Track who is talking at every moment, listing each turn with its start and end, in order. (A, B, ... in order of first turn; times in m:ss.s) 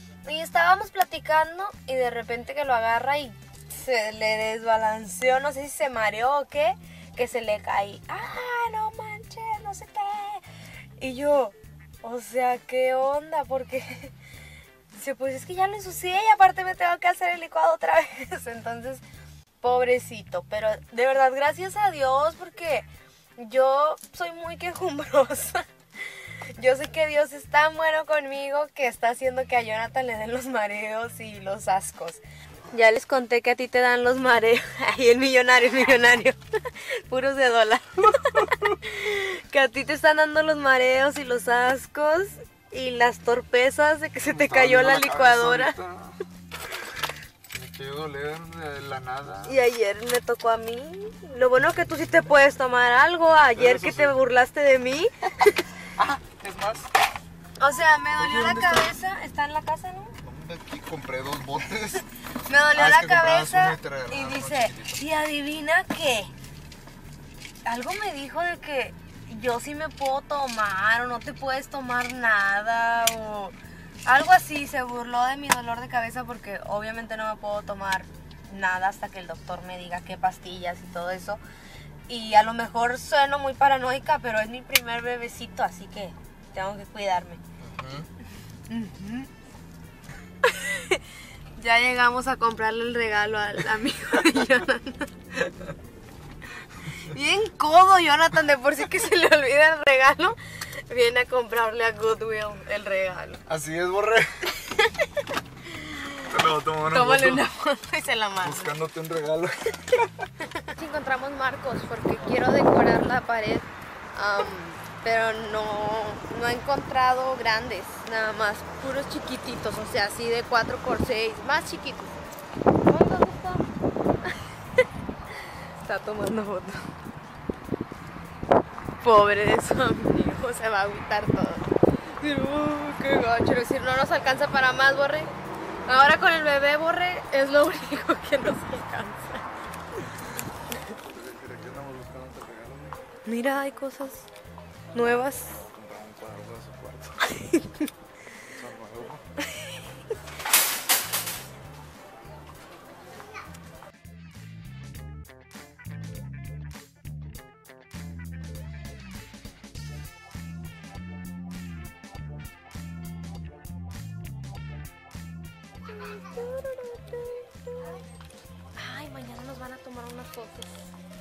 0:00.3-0:10.4 A
0:11.0-0:14.1 A
0:14.9-0:19.0 A
0:19.6-0:22.9 A
0:23.4-0:32.2 A
0:32.7-0:45.8 A
0:44.3-0:46.2 B
0:47.5-0:49.6 B
0:49.4-0:55.1 A
0:53.5-0:54.2 B
0:56.0-0:56.9 B
0:57.6-1:00.2 A
0:58.2-0:59.0 B
1:00.2-1:02.1 B
1:02.5-1:06.3 A
1:02.7-1:05.0 B
1:07.7-1:21.4 A
1:22.1-1:27.4 A
1:27.6-1:28.1 B
1:28.7-1:29.3 A
1:30.4-1:31.0 A
1:31.6-1:35.5 A
1:37.0-1:43.4 A
1:43.5-1:44.5 B
1:44.7-1:45.1 A
1:45.6-1:48.7 A
1:46.3-1:47.4 B
1:48.4-1:50.3 B
1:50.6-2:02.2 A
2:02.8-2:06.9 A
2:09.0-2:15.3 A
2:15.9-2:19.5 A
2:21.0-2:23.0 B
2:23.3-2:24.3 A
2:24.9-2:25.6 A
2:25.4-2:27.2 B
2:27.4-2:27.9 A
2:28.5-2:29.2 B
2:45.9-2:48.0 A
2:48.8-2:50.9 A